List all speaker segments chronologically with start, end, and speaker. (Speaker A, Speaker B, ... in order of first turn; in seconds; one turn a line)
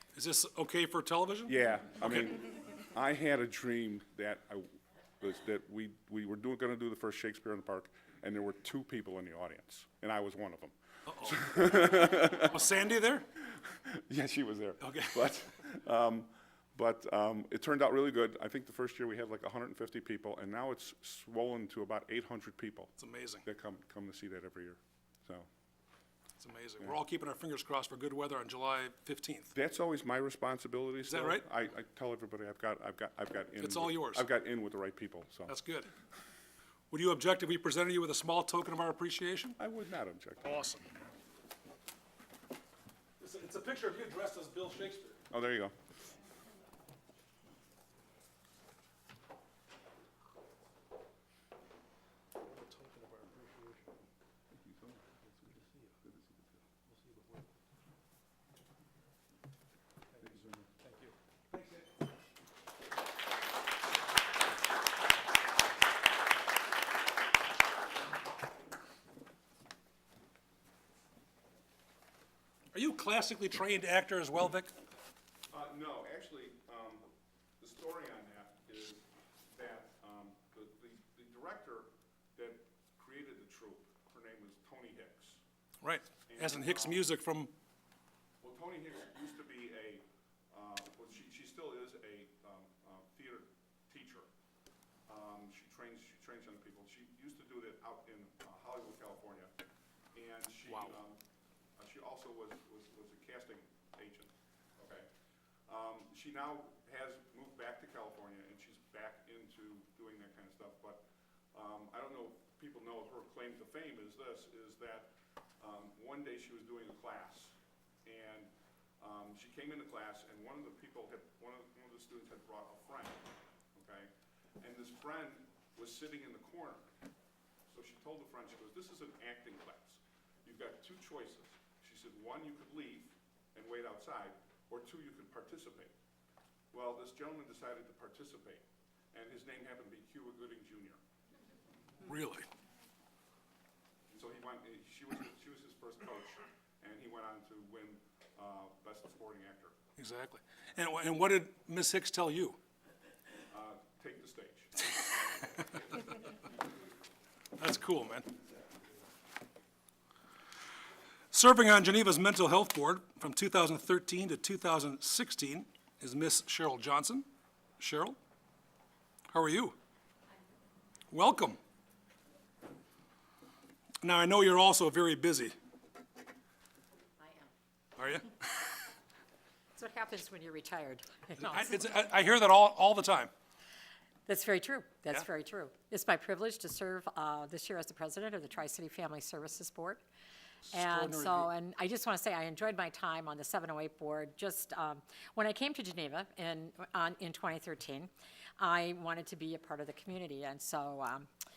Speaker A: 0.1-2.2
Speaker B: 1.5-12.6
Speaker A: 11.1-13.3
Speaker B: 13.5-25.5
Speaker A: 14.8-15.4
Speaker A: 23.0-23.4
Speaker A: 26.4-29.5
Speaker B: 29.5-35.5
Speaker A: 31.1-31.4
Speaker A: 33.6-34.2
Speaker A: 35.5-35.9
Speaker A: 36.9-39.6
Speaker B: 39.6-40.6
Speaker A: 40.4-40.9
Speaker A: 43.2-45.2
Speaker B: 45.3-45.7
Speaker A: 52.4-53.9
Speaker B: 54.5-55.2
Speaker A: 55.4-55.9
Speaker B: 56.0-56.6
Speaker A: 56.9-57.5
Speaker A: 60.1-61.9
Speaker B: 60.2-60.6
Speaker A: 72.7-74.7
Speaker B: 75.5-77.1
Speaker B: 77.6-85.4
Speaker A: 85.8-87.5
Speaker B: 86.3-87.0
Speaker B: 88.4-94.3
Speaker B: 95.1-99.5
Speaker B: 100.1-101.2
Speaker A: 100.7-101.0
Speaker B: 101.8-105.1
Speaker B: 105.7-126.9
Speaker B: 127.7-135.9
Speaker B: 136.7-141.0
Speaker A: 142.0-142.5
Speaker B: 144.1-149.8
Speaker A: 150.0-152.6
Speaker B: 153.5-155.4
Speaker A: 157.6-158.3
Speaker A: 161.3-167.3
Speaker A: 167.8-168.2
Speaker A: 169.3-169.8
Speaker A: 171.1-171.6
Speaker A: 174.0-175.5
Speaker C: 177.2-177.5
Speaker A: 178.0-178.6
Speaker C: 179.7-181.9
Speaker A: 181.4-183.3
Speaker C: 184.3-190.0
Speaker A: 190.7-191.5
Speaker C: 190.7-201.3